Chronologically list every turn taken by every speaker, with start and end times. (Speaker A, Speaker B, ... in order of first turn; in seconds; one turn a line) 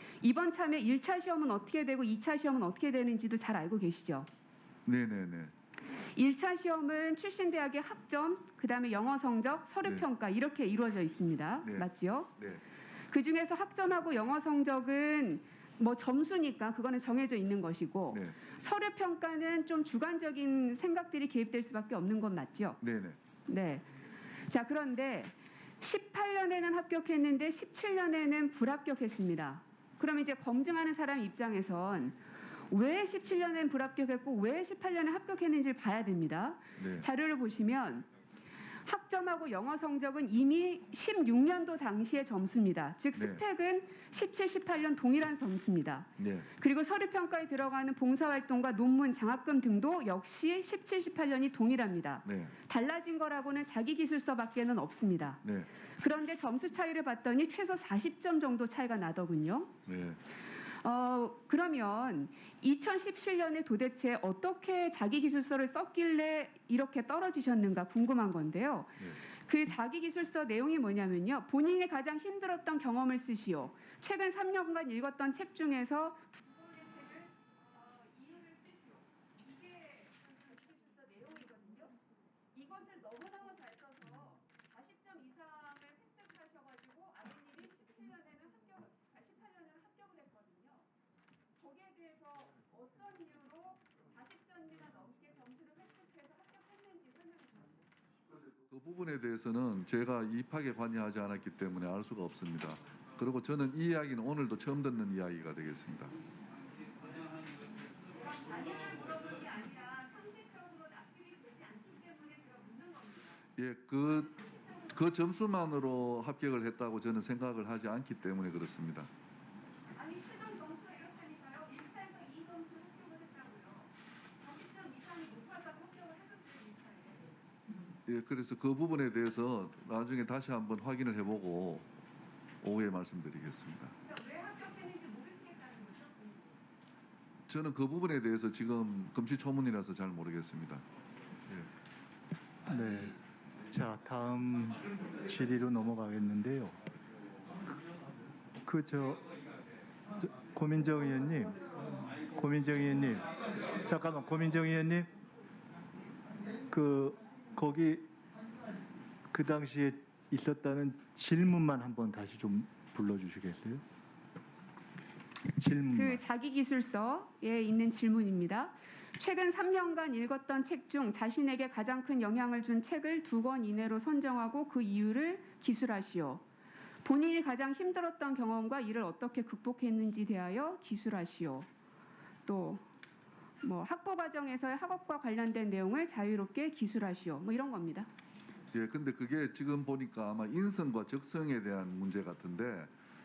Speaker A: 0.2-4.3
Speaker B: 4.8-5.5
Speaker A: 6.1-12.3
Speaker A: 13.1-22.8
Speaker B: 22.8-23.2
Speaker A: 23.5-23.9
Speaker A: 24.5-32.2
Speaker A: 32.7-38.0
Speaker B: 36.8-37.1
Speaker A: 38.8-55.4
Speaker B: 43.1-43.4
Speaker B: 46.2-46.5
Speaker B: 52.2-52.5
Speaker B: 55.4-55.7
Speaker A: 56.0-59.7
Speaker B: 59.9-60.2
Speaker A: 60.8-90.9
Speaker A: 91.6-97.8
Speaker B: 98.5-106.1
Speaker A: 108.0-113.4
Speaker B: 113.6-119.1
Speaker A: 120.0-127.3
Speaker B: 128.1-131.8
Speaker B: 132.6-133.9
Speaker A: 134.0-136.5
Speaker B: 137.5-140.8
Speaker C: 142.7-143.2
Speaker C: 143.7-146.8
Speaker C: 148.6-149.2
Speaker C: 150.2-151.6
Speaker C: 152.3-155.1
Speaker C: 156.7-158.1
Speaker C: 159.3-163.8
Speaker C: 165.5-166.2
Speaker A: 165.9-176.4
Speaker A: 177.0-181.7
Speaker A: 182.4-182.8
Speaker A: 183.6-188.1
Speaker B: 188.7-192.9